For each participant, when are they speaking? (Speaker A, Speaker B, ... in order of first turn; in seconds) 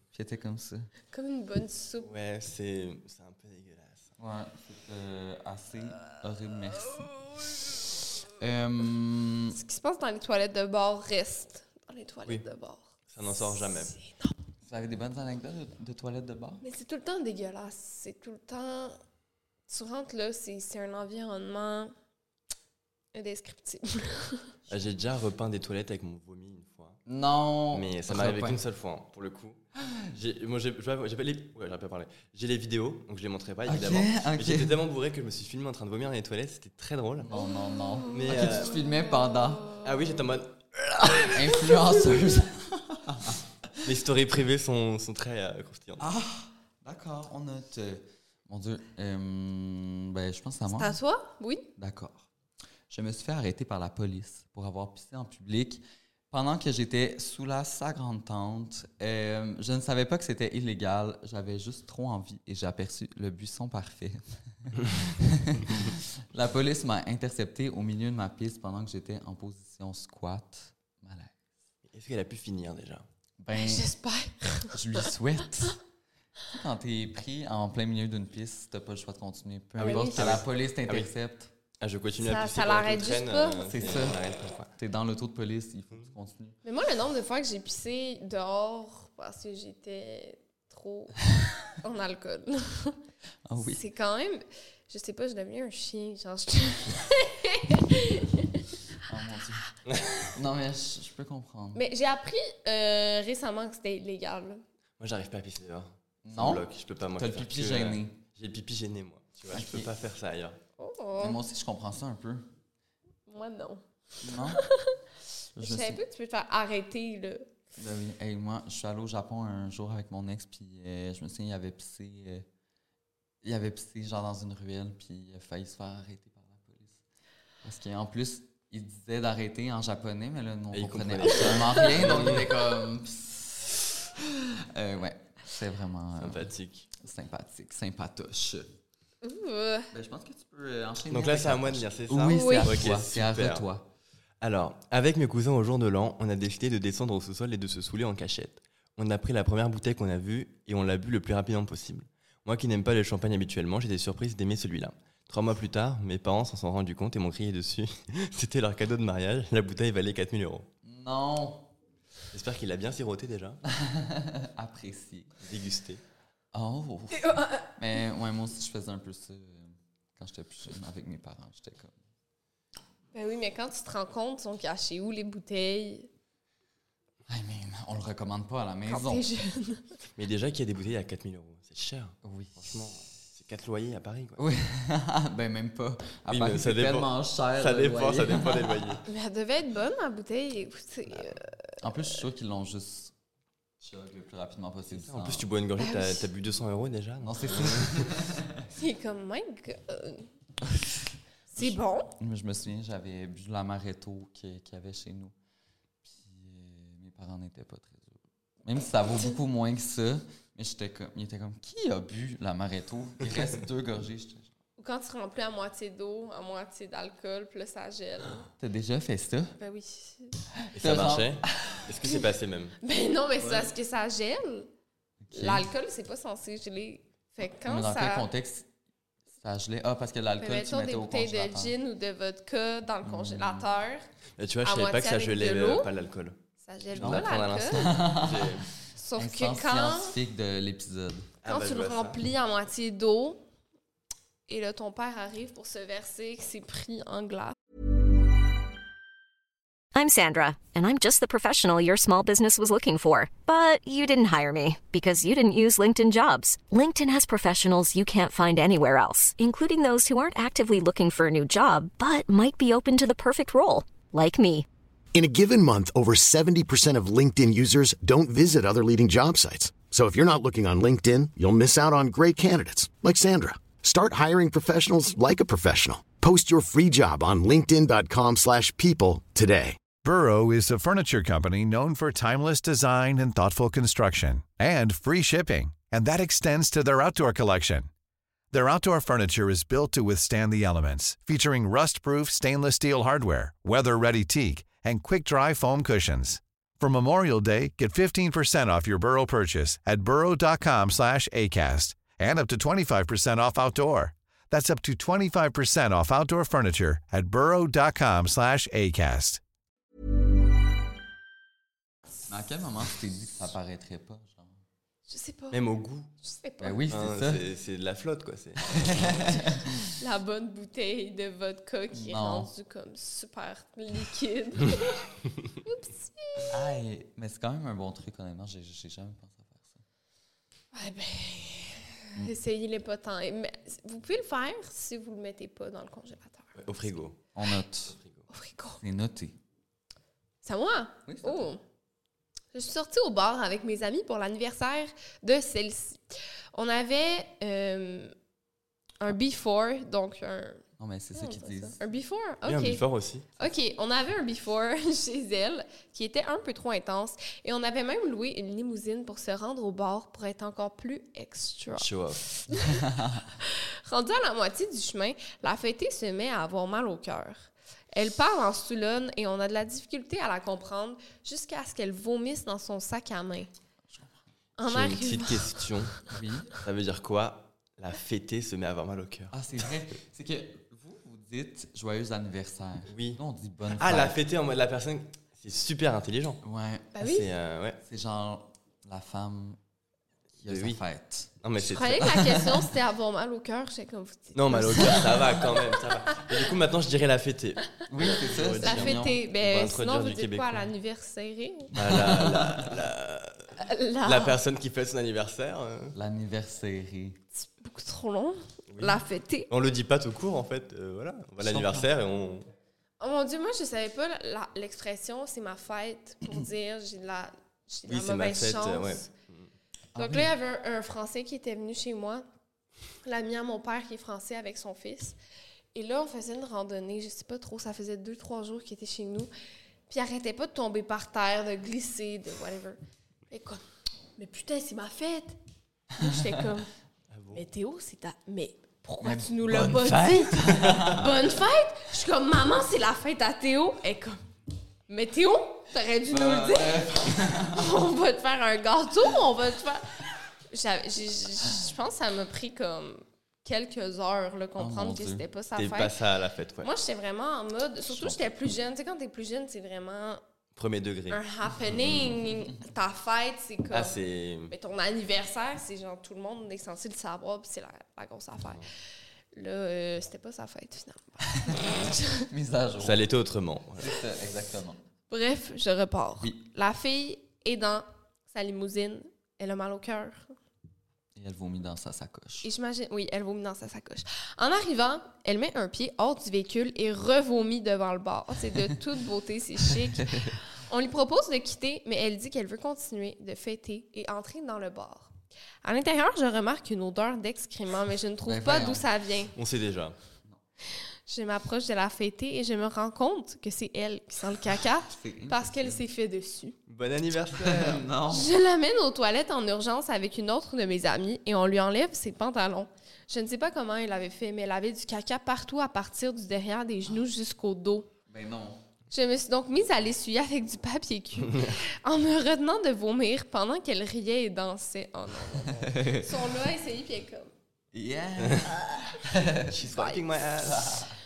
Speaker A: 0.1-0.9, 4.2-7.1, 8.4-9.6, 14.6-16.6, 27.1-28.6, 29.8-30.1, 33.6-34.8, 37.2-39.8, 41.0-43.4, 46.0-51.0, 51.8-52.2, 52.9-71.4, 73.4-73.9, 74.7-75.8, 76.5-81.5, 83.7-84.2, 84.8-86.6, 93.4-93.8, 99.0-99.7, 100.3-101.8, 106.2-108.2, 109.5-109.9, 111.2-112.5, 114.2-114.6, 115.5-116.0, 117.8-122.5, 123.4-127.0, 127.6-138.7, 139.9-143.9, 160.8-161.7, 163.7-165.3, 166.5-172.0, 177.3-179.2, 182.2-182.9, 184.4-188.8, 191.8-193.1, 193.8-195.5, 197.2-198.6, 201.6-205.3, 206.0-214.5, 218.6-219.5, 220.7-221.8, 225.2-225.7, 227.6-228.7, 229.4-231.8, 233.0-233.7, 236.9-238.6, 239.2-241.3, 312.3-314.6, 316.6-317.4, 318.7-319.8, 321.9-322.5, 326.5-329.8, 337.4-338.0, 338.8-339.4, 341.1-341.5, 350.8-351.8, 363.0-363.2, 373.9-374.2, 376.1-376.5, 379.3-384.2, 386.4-386.9, 387.8-389.6, 390.4-392.6, 397.9-399.2, 401.8-402.8, 405.9-407.2, 411.4-411.9, 419.9-420.3, 439.0-441.1, 446.1-447.8, 454.6-455.2, 457.9-458.2, 472.2-473.0, 473.8-474.8, 481.1-482.5, 490.1-490.4, 498.2-498.9, 504.9-505.8, 507.4-508.3, 518.1-518.6, 525.6-526.1, 527.7-529.6, 530.4-530.9
Speaker B: 1.1-2.1, 9.5-14.3, 16.6-19.0, 19.7-21.9, 23.1-24.5, 39.3-39.8, 50.7-51.6, 73.5-75.0, 79.8-80.3, 82.2-83.7, 86.6-91.2, 91.7-93.0, 93.6-98.6, 101.7-104.6, 110.8-111.4, 113.3-113.8, 114.5-115.0, 115.6-117.5, 139.2-139.9, 142.3-142.7, 167.1-167.7, 173.1-176.1, 178.9-179.9, 189.1-191.5, 195.8-196.2, 198.7-200.3, 201.5-202.1, 214.8-218.5, 219.6-220.4, 222.8-224.7, 225.3-228.3, 230.4-234.0, 234.6-235.9, 236.6-237.9, 238.9-240.2, 241.4-243.4, 244.5-247.5, 315.1-315.6, 316.2-316.8, 319.9-325.1, 325.6-326.5, 330.7-336.9, 338.3-338.8, 340.4-341.6, 342.5-348.1, 349.0-350.6, 351.1-352.8, 353.4-361.9, 362.5-362.8, 363.4-373.5, 374.6-375.6, 386.9-387.3, 391.6-395.4, 398.6-401.7, 403.6-404.4, 407.3-409.5, 413.0-419.1, 420.0-422.2, 423.0-425.2, 425.7-429.3, 429.9-432.8, 433.3-433.6, 434.2-435.4, 436.0-436.7, 437.3-444.2, 444.9-449.9, 450.5-455.9, 456.6-460.2, 461.1-464.0, 464.5-468.6, 469.3-472.2, 475.1-480.4, 482.4-495.1, 495.6-499.4, 501.1-506.6, 508.1-517.9, 518.9-527.3, 529.7-530.0
Speaker C: 2.0-4.1, 13.1-13.9, 24.7-27.0, 27.7-37.3, 38.1-38.8, 39.8-41.5, 43.8-46.0, 64.8-65.1, 71.9-73.0, 79.8-81.1, 81.8-84.7, 99.8-100.3, 105.0-110.6, 130.7-132.6, 136.2-136.9, 141.1-143.6, 144.4-160.7, 162.3-163.6, 165.4-166.0, 180.2-184.4, 186.3-189.0, 194.9-198.1, 220.7-222.8, 234.4-236.4, 236.9-238.7, 241.4-242.2, 315.5-316.1, 316.9-319.1, 336.6-337.1, 337.9-338.2, 352.4-353.3, 361.8-362.2, 374.6-376.0, 376.6-379.3, 382.9-383.2, 383.7-386.4, 387.0-387.8, 390.4-390.8, 391.4-392.1, 394.4-400.7, 401.8-403.5, 404.0-405.9, 408.7-412.4, 417.9-419.5, 437.1-437.4, 439.6-440.9, 455.6-456.7, 460.5-461.2, 461.8-462.1, 463.7-464.5, 472.8-473.9, 499.4-499.9, 506.7-507.9, 521.2-521.5, 528.2-528.5, 529.4-530.7
Speaker D: 249.9-264.6
Speaker E: 265.1-279.8
Speaker F: 279.9-287.9, 288.5-309.4